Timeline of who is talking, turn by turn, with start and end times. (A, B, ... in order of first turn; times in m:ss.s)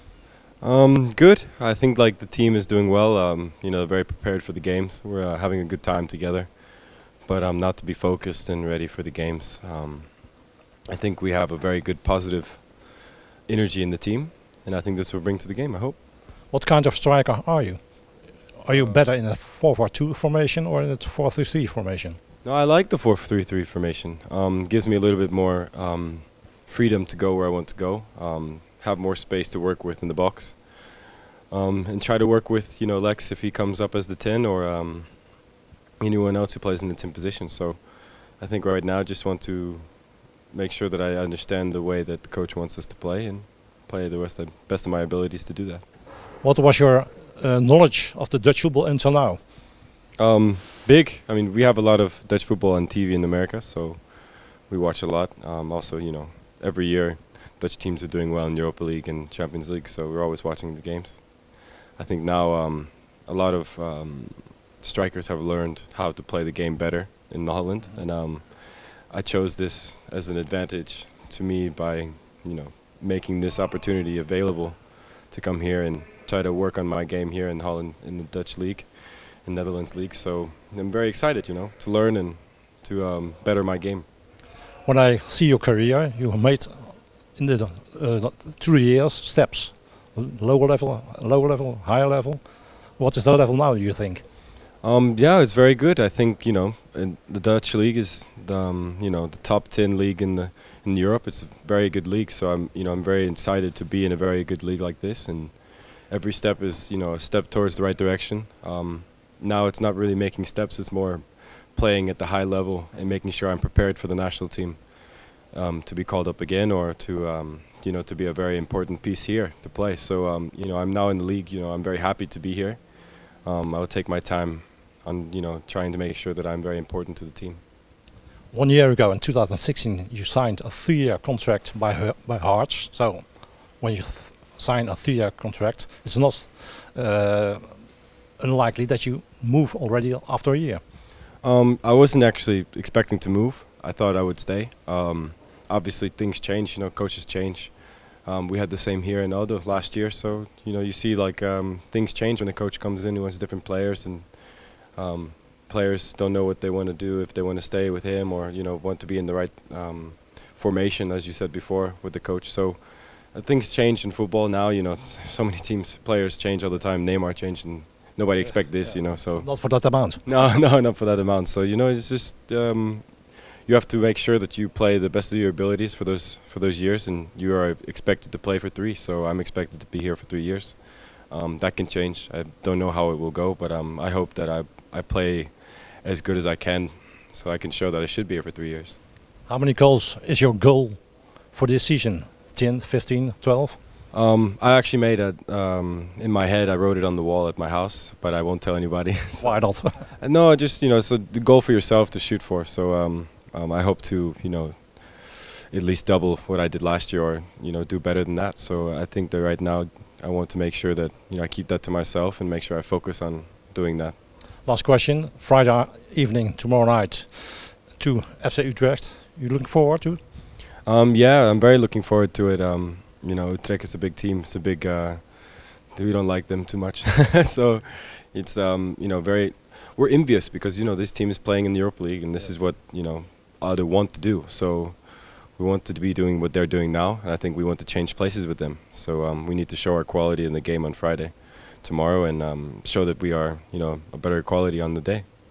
0:00.6-0:16.0 A
0:16.5-0:22.2 B
0:18.6-0:19.1 A
0:22.4-0:45.8 A
0:46.4-0:49.4 B
0:50.2-1:24.0 A
1:24.8-1:34.2 B
1:34.8-2:07.6 A
2:08.5-2:20.8 B
2:21.4-3:09.0 A
2:48.4-2:50.2 B
3:09.4-3:13.8 B
3:14.1-3:34.2 A
3:19.4-3:20.0 B
3:34.6-3:40.2 B
3:40.8-4:05.2 A